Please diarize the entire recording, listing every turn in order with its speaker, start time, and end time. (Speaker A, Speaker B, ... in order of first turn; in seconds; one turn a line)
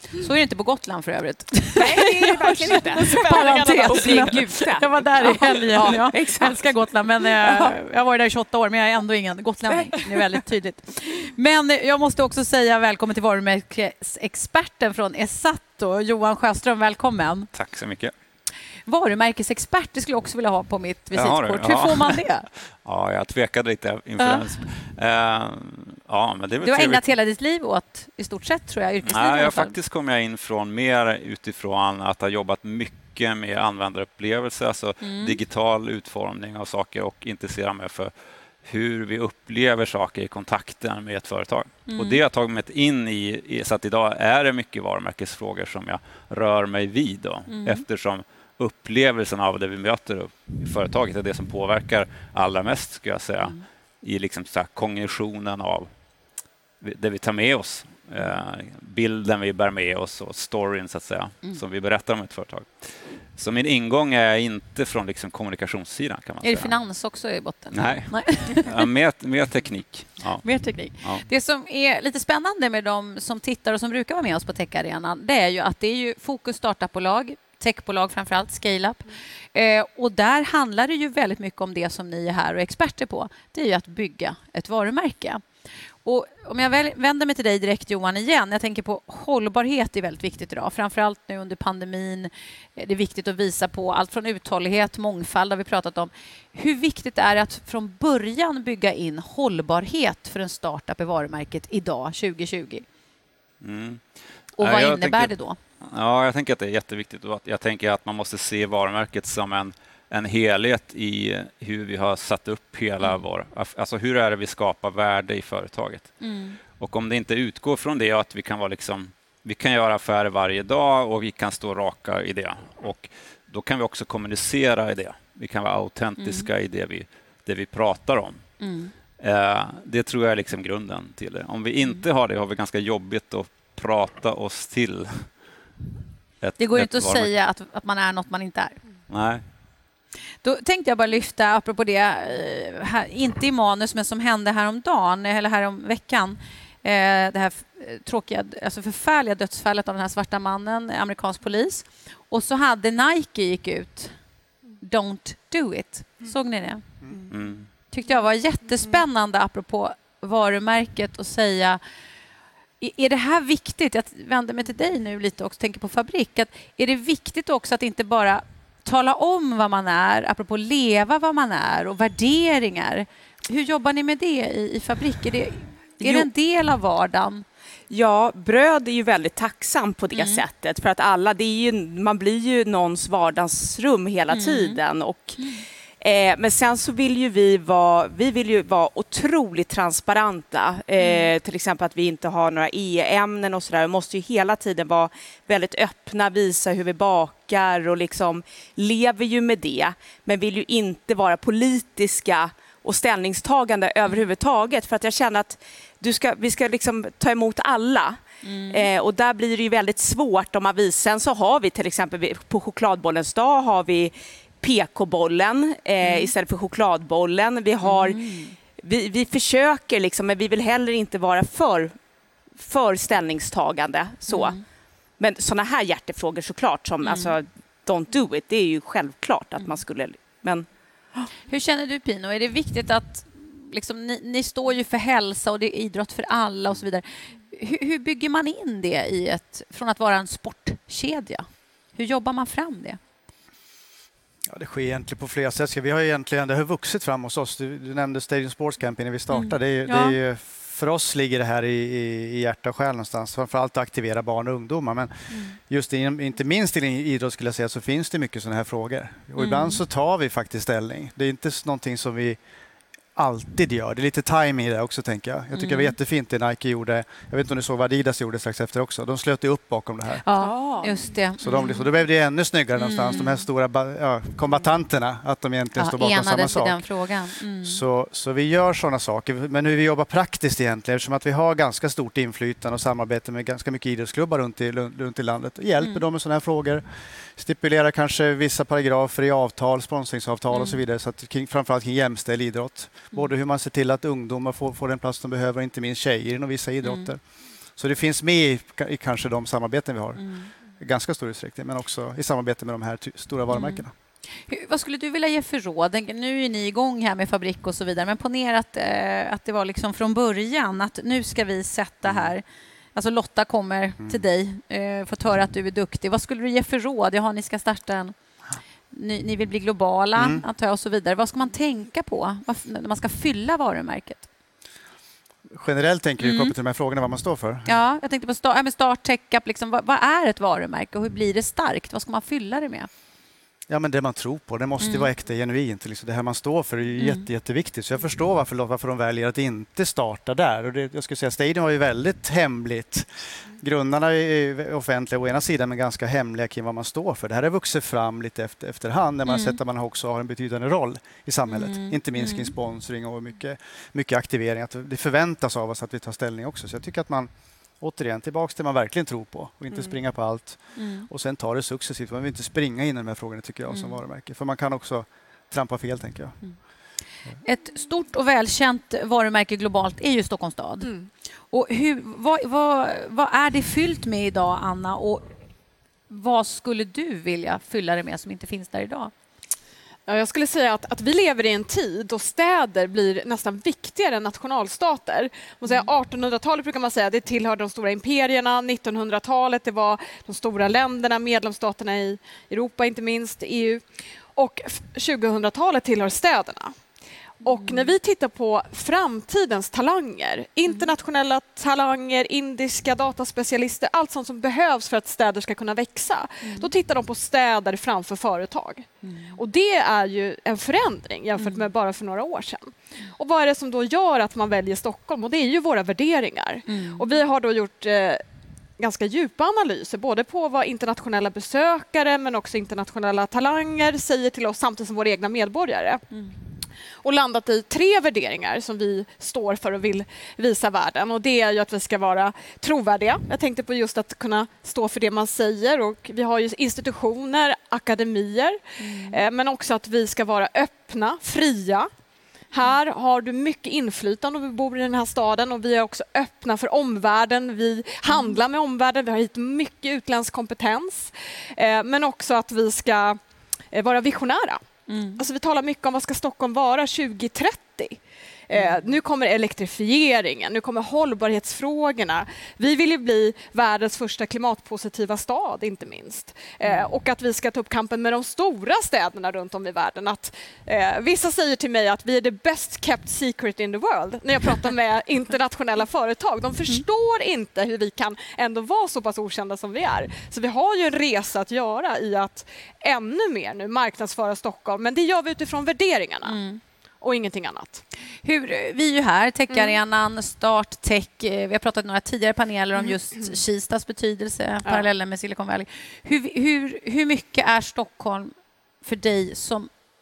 Speaker A: 0.2-17.5
Speaker B: 1.8-6.7
Speaker C: 2.8-4.4
Speaker B: 7.2-7.7
Speaker B: 9.7-10.3
Speaker D: 17.5-18.1
Speaker A: 18.9-22.5
Speaker D: 21.1-22.2
Speaker D: 22.8-27.1
Speaker A: 24.2-24.5
Speaker A: 26.6-29.8
Speaker D: 29.0-55.9
Speaker A: 35.0-35.4
Speaker A: 41.9-42.2
Speaker A: 47.5-47.8
Speaker D: 56.8-66.7
Speaker A: 66.4-68.9
Speaker D: 67.7-71.3
Speaker A: 70.4-85.4
Speaker A: 86.0-102.8
Speaker D: 103.6-104.1
Speaker A: 104.6-105.6
Speaker D: 104.6-116.2
Speaker A: 116.2-116.6
Speaker D: 116.8-128.4
Speaker A: 126.2-126.5
Speaker A: 128.6-128.9
Speaker D: 129.2-135.3
Speaker D: 136.4-137.3
Speaker A: 136.6-138.8
Speaker D: 139.1-139.4
Speaker A: 140.4-154.2
Speaker A: 154.8-156.8
Speaker D: 157.3-157.7
Speaker A: 157.9-161.8
Speaker A: 162.8-177.4
Speaker B: 176.0-176.3
Speaker B: 177.9-218.2
Speaker A: 180.2-180.4
Speaker A: 184.3-184.8
Speaker A: 191.0-191.3
Speaker A: 208.4-208.9
Speaker A: 216.0-216.3
Speaker A: 217.8-218.6
Speaker B: 218.7-222.0
Speaker B: 222.6-224.6
Speaker A: 224.3-224.6
Speaker B: 225.2-230.7
Speaker A: 227.1-227.3
Speaker A: 231.4-243.0
Speaker E: 244.5-262.4
Speaker A: 249.3-250.2
Speaker A: 255.3-255.6
Speaker A: 259.4-259.8
Speaker E: 263.1-270.2
Speaker A: 265.5-265.9
Speaker A: 270.2-271.9
Speaker B: 270.4-271.0
Speaker E: 271.4-276.8
Speaker A: 272.8-273.4
Speaker A: 275.8-277.8
Speaker E: 277.6-286.8
Speaker E: 287.4-300.2
Speaker A: 290.5-290.8
Speaker A: 296.8-297.1
Speaker A: 300.2-300.5
Speaker E: 300.8-303.9
Speaker A: 303.5-303.9
Speaker A: 304.5-312.4
Speaker A: 312.9-318.1
Speaker A: 318.9-324.2
Speaker E: 320.1-320.4
Speaker E: 325.5-327.8
Speaker A: 326.2-326.5
Speaker A: 327.7-332.9
Speaker E: 333.7-366.4
Speaker A: 334.8-335.1
Speaker A: 337.0-337.2
Speaker A: 349.3-349.6
Speaker A: 351.5-352.5
Speaker A: 360.8-361.1
Speaker A: 363.7-364.0
Speaker A: 367.4-370.9
Speaker C: 370.8-371.1
Speaker A: 371.5-375.2
Speaker A: 376.1-379.1
Speaker C: 380.1-393.8
Speaker C: 394.4-396.8
Speaker C: 397.4-418.2
Speaker A: 397.5-397.9
Speaker A: 400.7-400.9
Speaker A: 406.4-406.7
Speaker A: 409.0-409.4
Speaker A: 411.4-411.7
Speaker A: 416.7-417.1
Speaker C: 418.8-426.0
Speaker C: 427.0-441.9
Speaker A: 438.8-439.2
Speaker C: 442.5-453.2
Speaker A: 448.1-448.4
Speaker C: 453.7-454.6
Speaker A: 454.9-455.2
Speaker C: 455.2-486.4
Speaker A: 458.5-458.8
Speaker A: 486.2-486.6
Speaker C: 487.0-487.8
Speaker A: 488.2-499.7
Speaker C: 489.5-489.8